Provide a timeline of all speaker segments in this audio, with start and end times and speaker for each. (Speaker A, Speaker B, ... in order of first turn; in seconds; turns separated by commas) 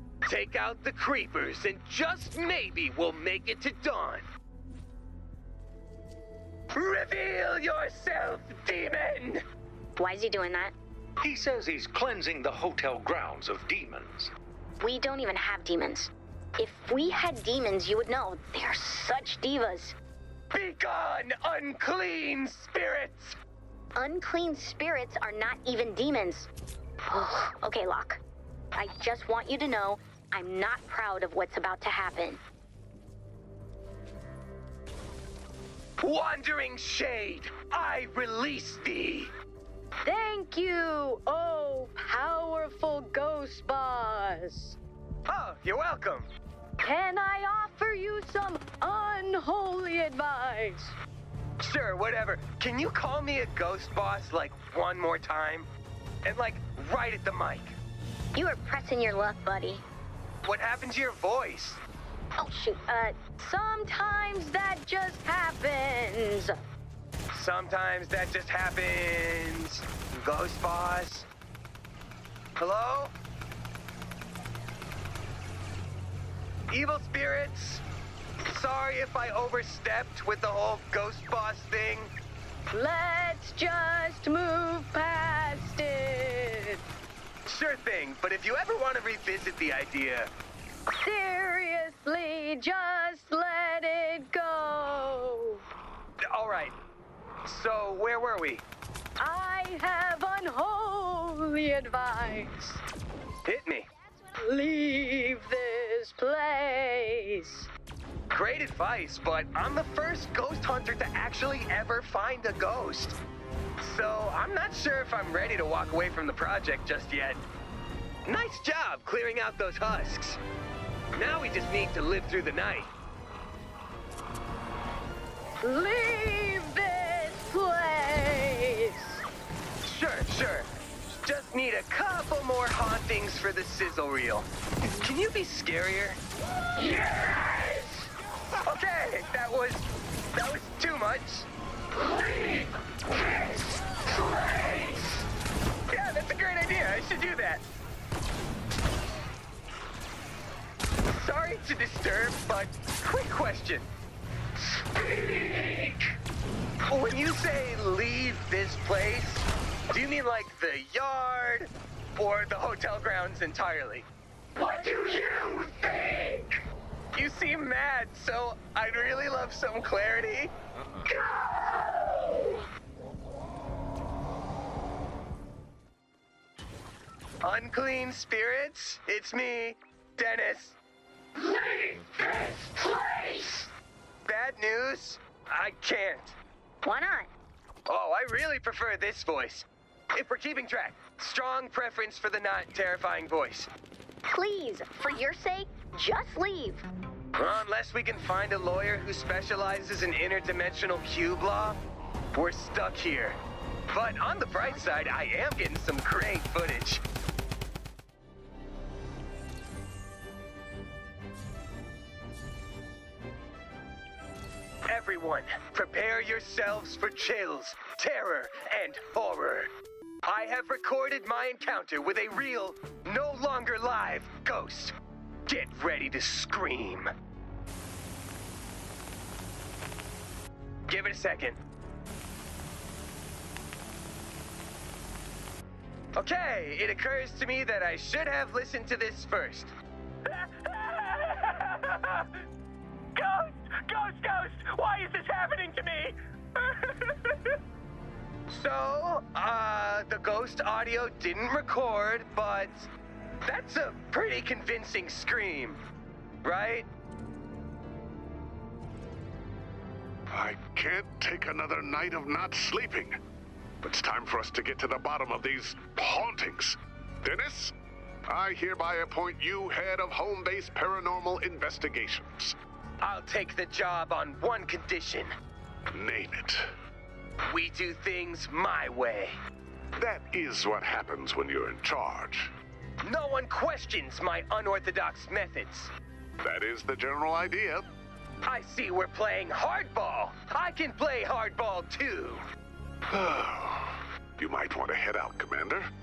Speaker A: 0.2-4.2, Speaker A: 6.7-9.4, Speaker B: 10.0-10.7, Speaker C: 11.2-14.3, Speaker B: 14.8-19.9, Speaker A: 20.5-23.4, Speaker B: 23.9-26.5, Speaker B: 27.1-28.2, Speaker B: 28.7-32.4, Speaker A: 36.0-39.3, Speaker D: 40.0-44.8, Speaker A: 45.2-46.3, Speaker D: 46.8-50.9, Speaker A: 51.6-55.7, Speaker A: 56.2-57.7, Speaker B: 58.3-59.8, Speaker A: 60.4-61.8, Speaker B: 62.4-66.6, Speaker A: 67.3-71.3, Speaker A: 72.6-73.1, Speaker A: 76.7-77.8, Speaker A: 78.4-82.1, Speaker D: 82.7-86.8, Speaker A: 87.5-90.3, Speaker D: 91.0-95.6, Speaker A: 96.3-96.7, Speaker A: 97.4-98.6, Speaker D: 99.2-102.8, Speaker A: 103.5-103.9, Speaker D: 104.4-107.7, Speaker A: 108.3-113.2, Speaker A: 113.8-117.4, Speaker A: 118.2-120.4, Speaker A: 121.1-122.9, Speaker D: 125.6-129.2, Speaker A: 129.8-136.2, Speaker A: 138.6-141.5, Speaker A: 144.2-145.0, Speaker A: 145.9-147.6, Speaker A: 151.1-153.9, Speaker A: 154.9-156.0, Speaker A: 156.9-164.1, Speaker A: 164.6-166.6, Speaker A: 167.1-170.5, Speaker A: 177.4-180.8, Speaker A: 182.3-182.7, Speaker A: 183.3-183.6, Speaker A: 184.2-186.4, Speaker B: 186.8-187.3, Speaker A: 187.9-193.7, Speaker B: 194.3-196.8, Speaker A: 197.3-201.8, Speaker A: 202.3-203.4, Speaker A: 203.9-207.0, Speaker A: 214.9-219.7, Speaker A: 220.2-224.9, Speaker A: 225.5-227.1, Speaker A: 230.9-231.6, Speaker A: 236.2-239.7, Speaker A: 240.3-242.3, Speaker A: 243.2-247.6, Speaker A: 248.5-252.9, Speaker A: 253.4-255.8, Speaker A: 256.4-256.9, Speaker E: 260.3-263.2, Speaker E: 263.8-267.7, Speaker E: 268.3-272.6, Speaker A: 273.0-275.3, Speaker E: 275.9-276.7, Speaker A: 277.5-279.3, Speaker E: 280.0-282.5, Speaker A: 283.0-285.9, Speaker E: 286.4-287.8, Speaker A: 288.4-292.4, Speaker E: 293.1-295.9